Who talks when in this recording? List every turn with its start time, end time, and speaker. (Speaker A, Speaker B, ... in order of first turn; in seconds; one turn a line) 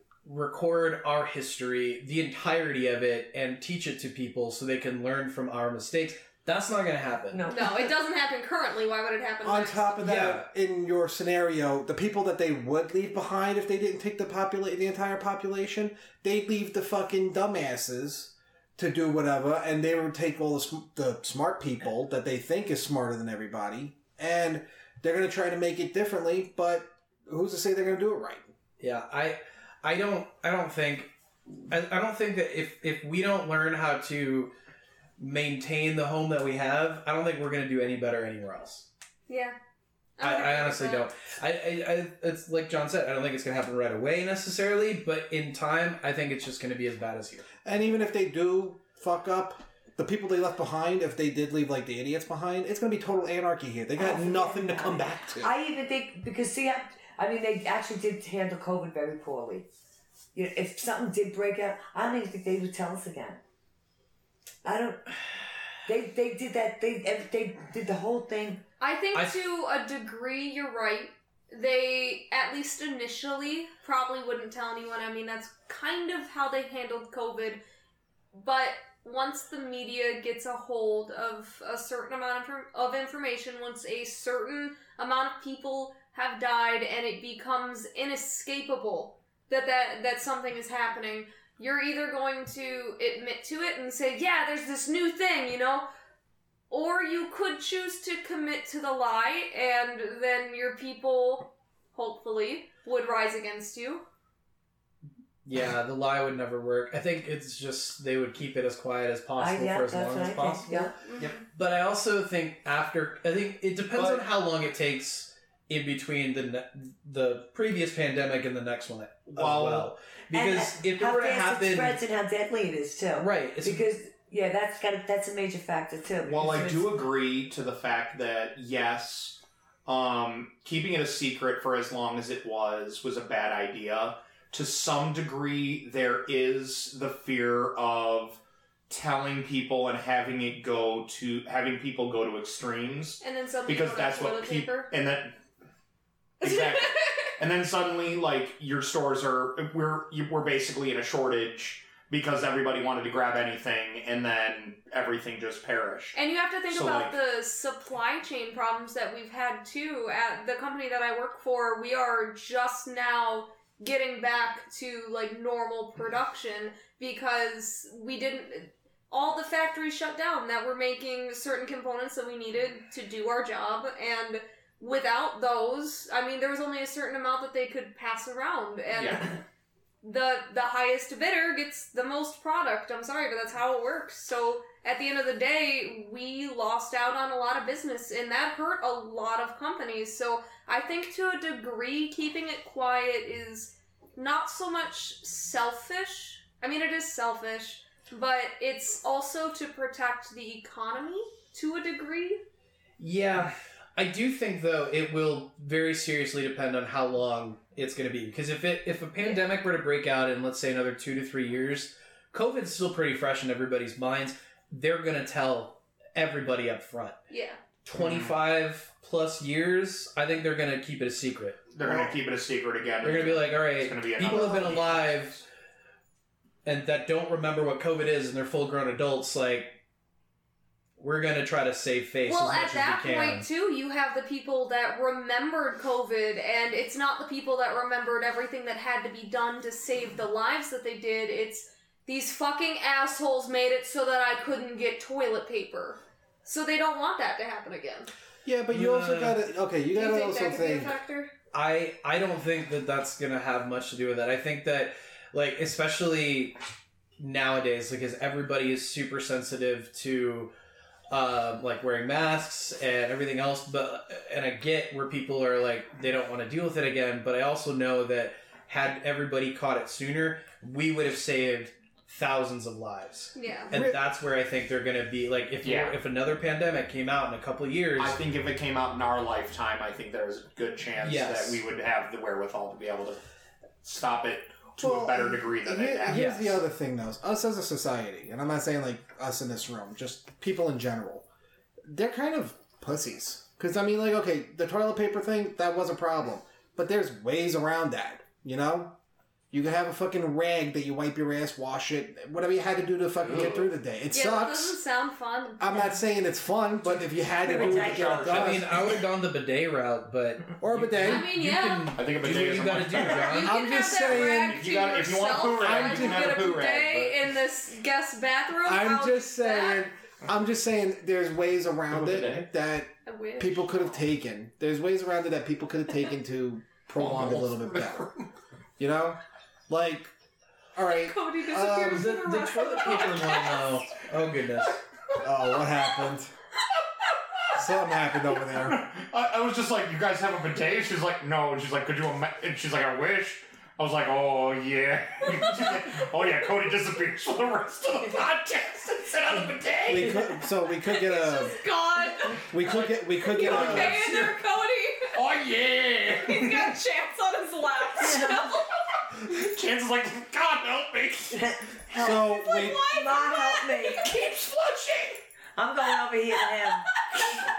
Speaker A: 0.2-7.5
Speaker B: 7.3-7.9
Speaker C: 7.5-10.0
Speaker D: 9.4-28.5
Speaker A: 10.0-10.5
Speaker A: 28.8-31.1
Speaker A: 31.7-34.5
Speaker A: 35.2-38.9
Speaker C: 39.3-39.6
Speaker C: 40.2-41.1
Speaker A: 40.2-47.5
Speaker D: 47.6-55.5
Speaker B: 54.0-59.7
Speaker B: 60.3-63.4
Speaker B: 64.6-65.1
Speaker B: 65.8-68.6
Speaker C: 68.8-77.6
Speaker C: 78.3-95.9
Speaker C: 96.7-104.0
Speaker A: 105.5-122.0
Speaker B: 109.4-111.0
Speaker C: 111.0-111.4
Speaker E: 113.9-114.2
Speaker E: 119.3-119.9
Speaker B: 120.3-126.9
Speaker A: 123.2-123.9
Speaker E: 126.3-145.4
Speaker C: 143.2-144.9
Speaker C: 146.4-147.3
Speaker E: 146.4-156.2
Speaker C: 156.1-179.4
Speaker E: 156.7-157.1
Speaker E: 178.9-179.3
Speaker C: 180.0-202.4
Speaker A: 203.0-217.2
Speaker C: 217.3-217.6
Speaker A: 217.8-221.7
Speaker E: 217.9-218.4
Speaker E: 221.7-225.4
Speaker A: 223.0-225.4
Speaker C: 224.3-224.7
Speaker A: 226.7-229.8
Speaker A: 231.0-233.5
Speaker C: 232.3-248.1
Speaker D: 248.4-251.0
Speaker A: 248.7-249.4
Speaker C: 249.9-251.3
Speaker A: 251.5-256.6
Speaker A: 257.2-260.5
Speaker A: 261.1-278.2
Speaker C: 273.4-273.7
Speaker D: 273.7-274.0
Speaker E: 275.6-276.0
Speaker E: 278.0-283.2
Speaker A: 281.0-281.6
Speaker E: 283.8-286.4
Speaker D: 284.8-291.3
Speaker A: 286.1-286.6
Speaker D: 291.9-299.0
Speaker D: 299.5-304.8
Speaker E: 303.2-303.7
Speaker C: 304.1-306.0
Speaker D: 305.6-308.8
Speaker E: 306.8-308.8
Speaker B: 307.4-308.4
Speaker A: 308.3-313.6
Speaker D: 310.6-311.3
Speaker C: 311.0-312.0
Speaker E: 311.9-313.3
Speaker D: 313.0-314.6
Speaker C: 313.1-319.9
Speaker E: 314.0-317.2
Speaker D: 315.5-316.4
Speaker D: 318.6-328.1
Speaker E: 321.9-322.5
Speaker C: 323.1-323.9
Speaker E: 327.0-328.2
Speaker D: 328.8-330.1
Speaker D: 330.8-332.1
Speaker C: 330.9-333.8
Speaker A: 331.8-334.8
Speaker D: 335.2-336.3
Speaker C: 335.2-335.6
Speaker D: 337.5-338.9
Speaker E: 338.6-350.3
Speaker D: 349.9-351.6
Speaker C: 350.9-352.5
Speaker D: 352.5-354.0
Speaker E: 352.6-354.4
Speaker C: 353.1-355.2
Speaker E: 355.1-356.7
Speaker C: 356.2-358.8
Speaker B: 358.0-358.5
Speaker E: 359.1-361.4
Speaker B: 361.3-364.1
Speaker D: 361.9-362.8
Speaker C: 362.1-364.3
Speaker E: 364.0-365.2
Speaker B: 365.6-366.9
Speaker C: 366.9-367.4